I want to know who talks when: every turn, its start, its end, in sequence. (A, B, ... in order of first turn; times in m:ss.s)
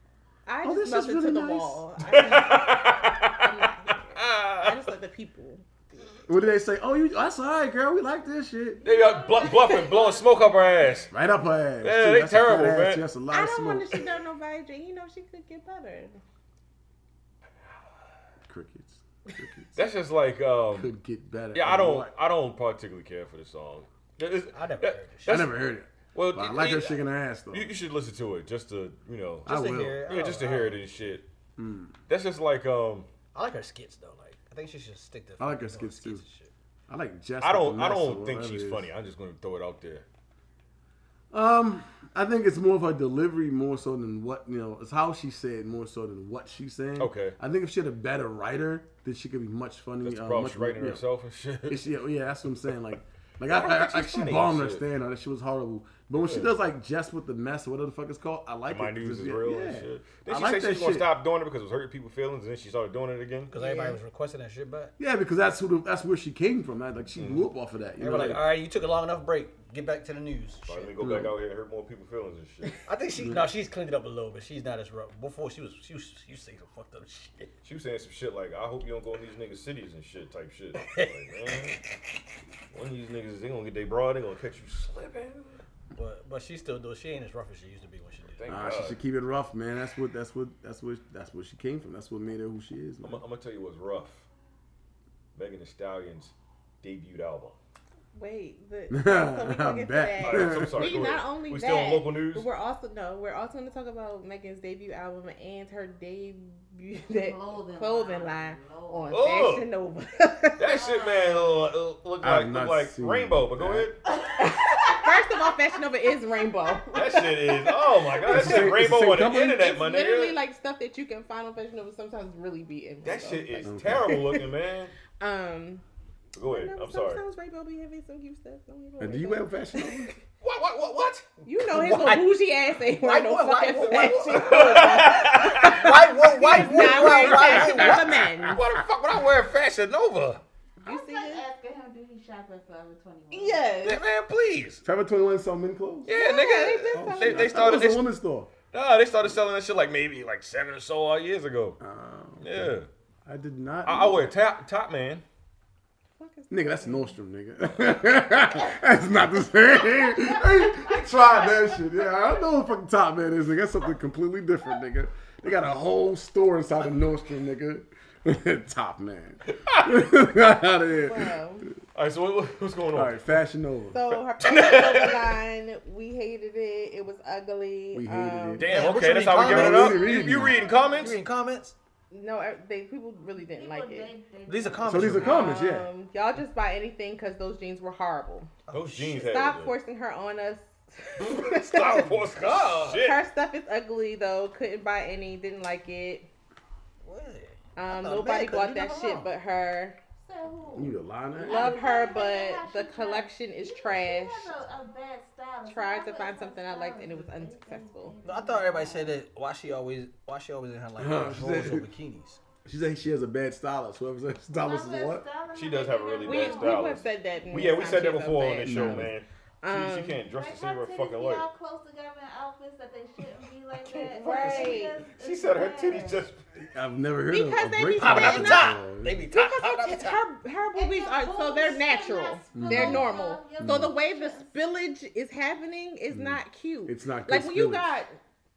0:00.4-0:06.2 A
0:00.6-0:01.8 B
0:02.1-0:04.8 C
0:06.3-0:08.8 B
0:08.8-0:11.1 D
0:08.8-0:11.1 C
0:11.1-0:14.0 B
0:11.8-0:13.1 C
0:13.3-0:16.2 A
0:18.5-0:19.8 B
0:19.8-0:20.9 C
0:20.7-0:22.1 B
0:21.5-0:25.6 C
0:24.5-0:25.5 E
0:25.3-0:27.7 B
0:26.1-0:31.3 C
0:29.4-0:30.1 B
0:29.4-0:30.8 E
0:31.6-0:32.0 B
0:32.1-0:33.1 C
0:33.3-0:36.5 E
0:35.4-0:36.2 B
0:36.9-0:38.9 B
0:37.4-0:40.0 C
0:41.3-0:51.0 B
0:47.0-0:47.4 C
0:50.0-0:51.9 C
0:51.6-1:01.1 B
0:53.5-0:54.8 C
0:56.2-0:56.5 C
0:58.7-1:03.5 C
1:03.5-1:04.9 E
1:03.6-1:04.0 A
1:05.0-1:08.4 B
1:07.2-1:07.5 C
1:08.0-1:10.9 E
1:10.6-1:12.8 C
1:11.0-1:11.3 B
1:12.8-1:17.5 E
1:13.2-1:13.5 B
1:17.6-1:21.8 C
1:20.8-1:21.5 E
1:22.7-1:25.6 C
1:25.9-1:28.4 E
1:28.4-1:29.0 C
1:28.4-1:33.2 B
1:33.0-1:34.2 C
1:35.4-1:37.6 C
1:38.1-1:50.7 A
1:38.9-1:41.0 B
1:40.2-1:42.5 C
1:47.1-1:49.2 D
1:49.1-1:49.7 C
1:50.6-1:54.0 C
1:50.7-1:51.6 D
1:52.2-1:53.9 B
1:54.1-1:55.7 D
1:54.4-1:58.7 A
1:56.6-1:56.9 D
1:56.9-2:00.4 C
1:58.3-1:59.6 B
1:59.6-2:04.4 A
2:03.0-2:04.9 C
2:03.6-2:04.1 B
2:05.2-2:05.8 A
2:06.3-2:07.2 C
2:06.4-2:10.1 A
2:09.0-2:10.1 B
2:10.4-2:11.3 C
2:11.4-2:14.9 E
2:11.4-2:18.6 A
2:14.0-2:15.9 C
2:15.4-2:18.1 E
2:16.6-2:20.4 C
2:20.8-2:21.4 A
2:20.8-2:23.7 D
2:23.3-2:24.0 A
2:23.8-2:24.8 C
2:24.8-2:26.1 B
2:26.0-2:28.1 C
2:26.1-2:27.6 A
2:26.9-2:28.5 B
2:28.7-2:31.8 C
2:31.8-2:34.3 B
2:32.4-2:32.9 C
2:33.8-2:35.2 C
2:36.2-2:37.2 A
2:36.5-2:51.4 B
2:49.6-2:49.9 C
2:50.9-2:51.7 A
2:51.9-2:53.4 C
2:52.9-2:54.0 B
2:53.9-2:59.0 A
2:54.1-2:55.4 C
2:57.9-2:58.7 B
2:58.6-3:01.2 C
2:58.6-3:00.1 E
2:59.3-3:00.6 B
2:59.8-3:01.2 D
3:01.0-3:01.8 E
3:02.1-3:04.1 A
3:03.4-3:05.6 D
3:04.4-3:05.5 E
3:04.8-3:05.9 B
3:05.2-3:08.5 A
3:08.7-3:09.1 E
3:08.7-3:09.7 C
3:09.1-3:16.3 A
3:11.2-3:13.2 C
3:17.0-3:19.3 E
3:17.8-3:20.0 A
3:20.2-3:29.2 D
3:20.7-3:21.8 B
3:21.4-3:24.5 A
3:25.7-3:28.2 A
3:28.2-3:32.4 E
3:31.0-3:31.9 B
3:32.6-3:35.2 B
3:34.5-3:38.3 D
3:35.5-3:41.4 C
3:36.2-3:40.2 A
3:38.6-3:39.1 B
3:40.3-3:46.3 D
3:43.9-3:45.0 A
3:44.2-3:46.4 C
3:46.6-3:49.2 B
3:47.3-3:58.1 A
3:48.0-3:50.2 E
3:50.7-3:54.6 D
3:52.5-3:53.1 B
3:53.6-3:53.9 B
3:56.1-3:57.9 B